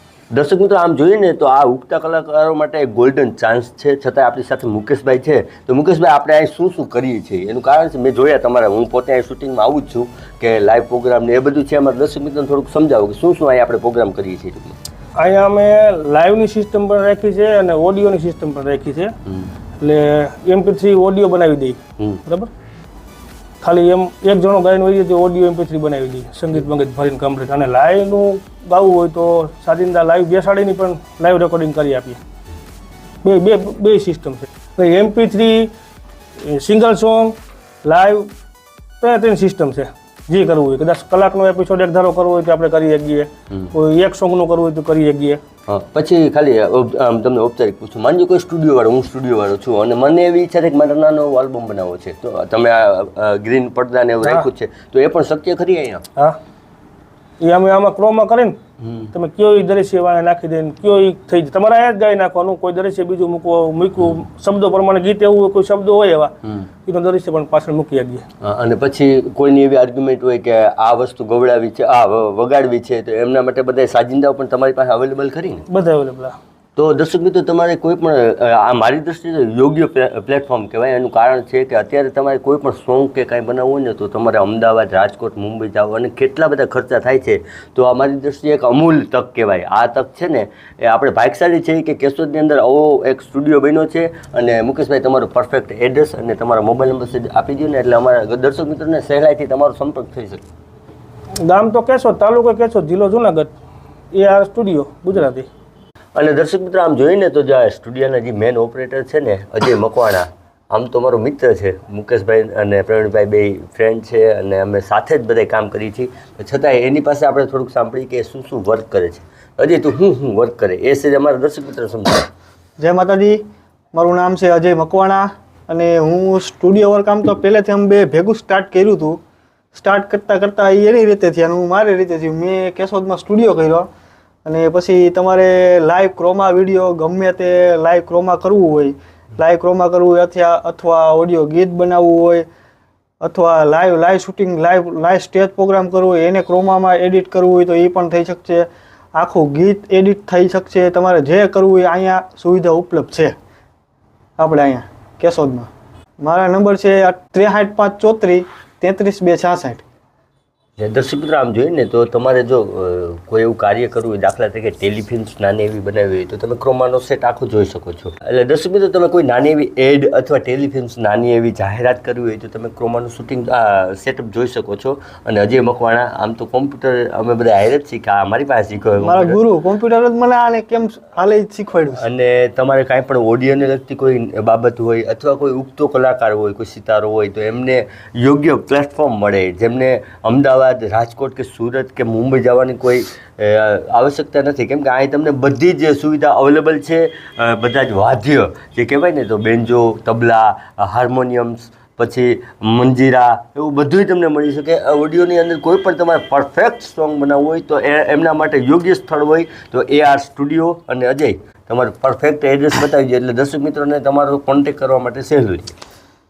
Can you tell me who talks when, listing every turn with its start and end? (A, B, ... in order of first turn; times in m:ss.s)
0:00.3-0:14.8 A
0:15.2-0:19.2 B
0:19.8-0:22.5 B
0:23.6-0:32.2 B
0:33.2-0:35.7 B
0:36.4-0:38.3 B
0:39.0-0:45.4 B
0:45.7-0:56.0 A
0:57.4-0:58.6 B
0:58.8-0:59.1 A
0:59.1-1:08.2 B
1:08.4-1:15.6 A
1:15.7-1:16.3 B
1:16.8-1:40.4 A
1:41.4-1:43.5 B
1:44.1-1:45.5 B
1:46.2-2:02.3 A
2:02.8-2:03.4 C
2:03.9-2:09.2 C
2:09.7-2:13.9 C
2:14.4-2:22.5 C
2:23.2-2:33.3 C
2:34.4-2:35.7 C
2:36.2-2:39.8 C
2:40.8-2:59.4 A
2:59.0-3:02.0 C
3:02.0-3:35.7 A